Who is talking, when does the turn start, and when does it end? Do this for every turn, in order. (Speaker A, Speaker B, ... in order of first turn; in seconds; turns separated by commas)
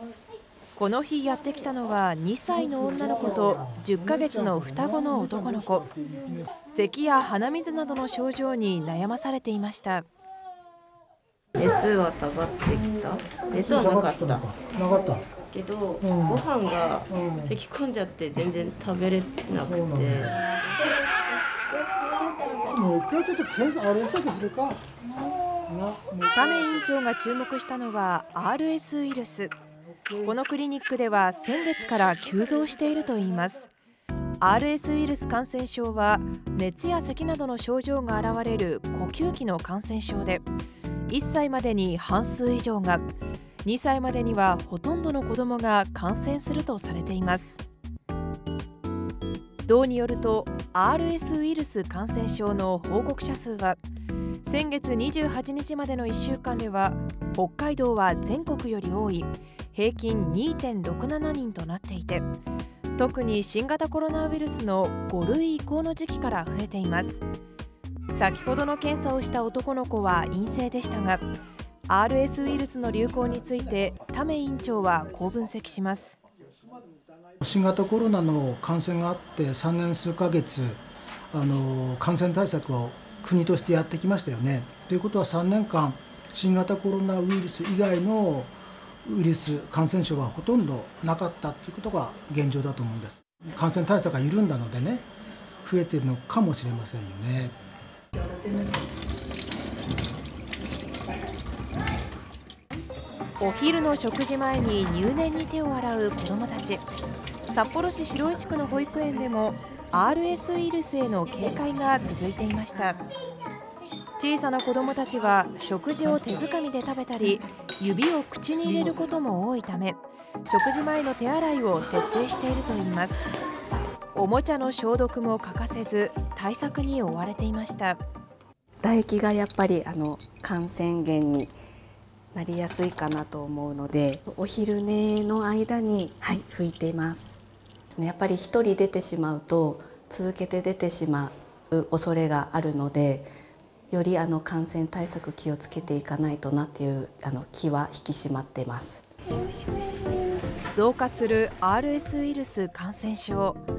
Speaker A: 0.7-5.8, Speaker B: 3.0-6.5, Speaker A: 6.7-10.1, Speaker C: 11.6-14.4, Speaker B: 13.6-15.3, Speaker C: 15.4-20.9, Speaker B: 16.0-16.4, Speaker B: 17.1-17.5, Speaker B: 19.6-20.4, Speaker B: 22.7-24.8, Speaker B: 25.7-26.7, Speaker A: 26.3-29.5, Speaker A: 30.2-33.7, Speaker A: 34.4-40.4, Speaker A: 41.1-43.1, Speaker A: 43.6-47.6, Speaker A: 49.6-53.8, Speaker A: 54.4-62.2, Speaker A: 63.0-67.2, Speaker A: 68.1-71.2, Speaker A: 71.9-76.2, Speaker B: 77.3-80.8, Speaker B: 81.3-95.1, Speaker B: 95.6-97.5, Speaker A: 103.4-106.8, Speaker A: 107.5-113.0, Speaker A: 114.2-123.3, Speaker A: 124.1-128.0, Speaker D: 128.8-131.5, Speaker D: 132.3-137.4, Speaker D: 137.9-143.3, Speaker D: 143.9-149.1, Speaker A: 150.7-153.6